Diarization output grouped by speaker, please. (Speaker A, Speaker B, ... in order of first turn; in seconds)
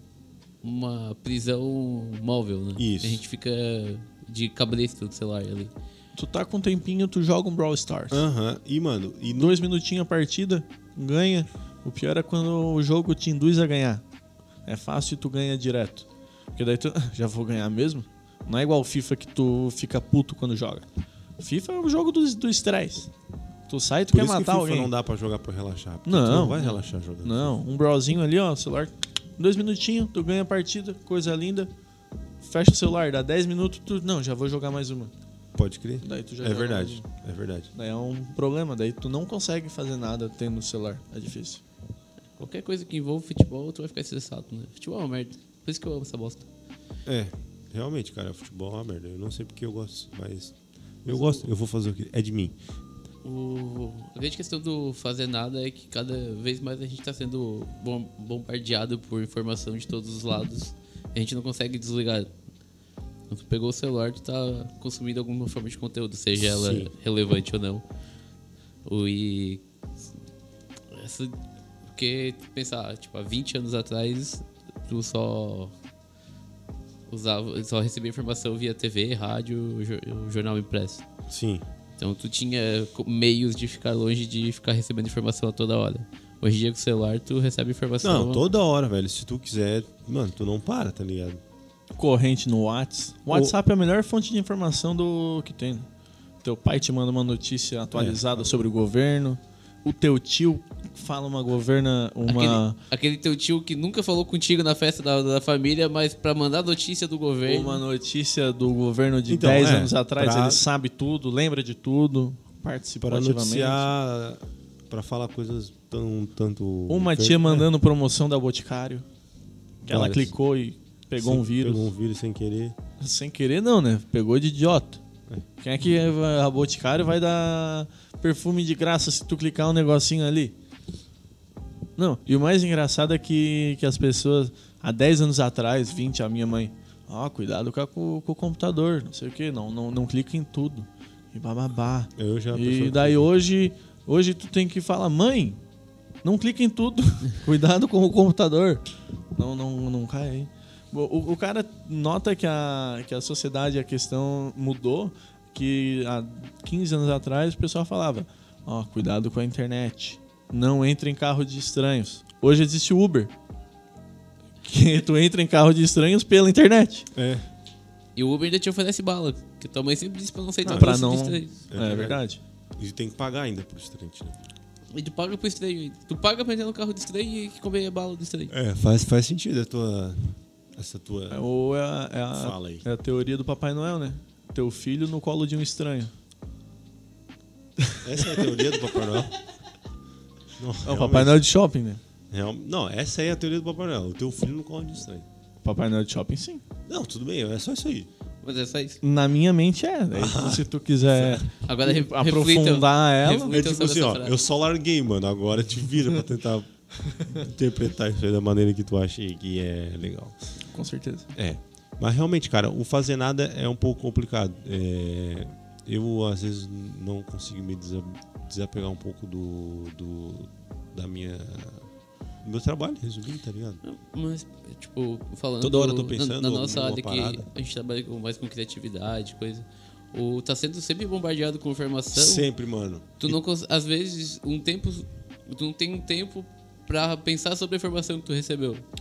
Speaker A: 0.6-5.7, 42.4-46.5, 51.1-51.5, 53.2-62.3, 63.3-67.8, 68.8-69.6, 70.9-71.4, 71.9-75.7, 77.1-81.0, 82.0-88.4, 102.3-107.8, 168.2-171.6, 174.9-178.5, 198.4-199.0, 201.6-204.4, 223.8-232.5, 233.2-238.8
Speaker B: 2.8-3.2, 8.1-9.6, 24.1-27.6, 35.6-37.7, 47.0-52.5, 66.4-66.9, 81.3-81.6, 88.0-91.4, 97.9-98.6, 109.3-110.6, 113.0-117.7, 119.9-120.3, 121.2-122.7, 142.2-143.3, 167.1-167.4, 170.6-170.9, 171.7-172.2, 172.8-174.4, 178.5-181.4, 182.3-182.8, 188.0-189.4, 190.6-191.4, 192.3-195.2, 196.9-198.1, 200.1-201.4, 203.5-210.4, 211.3-221.9, 222.4-223.8, 225.6-227.4, 232.1-233.4
Speaker C: 6.1-8.2, 9.3-14.0, 14.7-20.9, 21.4-23.1, 23.7-24.9, 26.0-31.7, 32.4-35.1, 36.0-37.1, 37.7-41.6, 92.0-95.9, 96.4-102.8, 107.4-113.9, 116.9-119.0, 119.8-121.9, 123.0-125.0, 125.6-130.5, 131.9-145.6, 146.2-163.3, 164.6-167.1, 170.7-172.4, 181.3-186.1, 187.8-188.4, 190.8-192.0, 195.6-196.6, 199.0-203.6, 210.7-211.3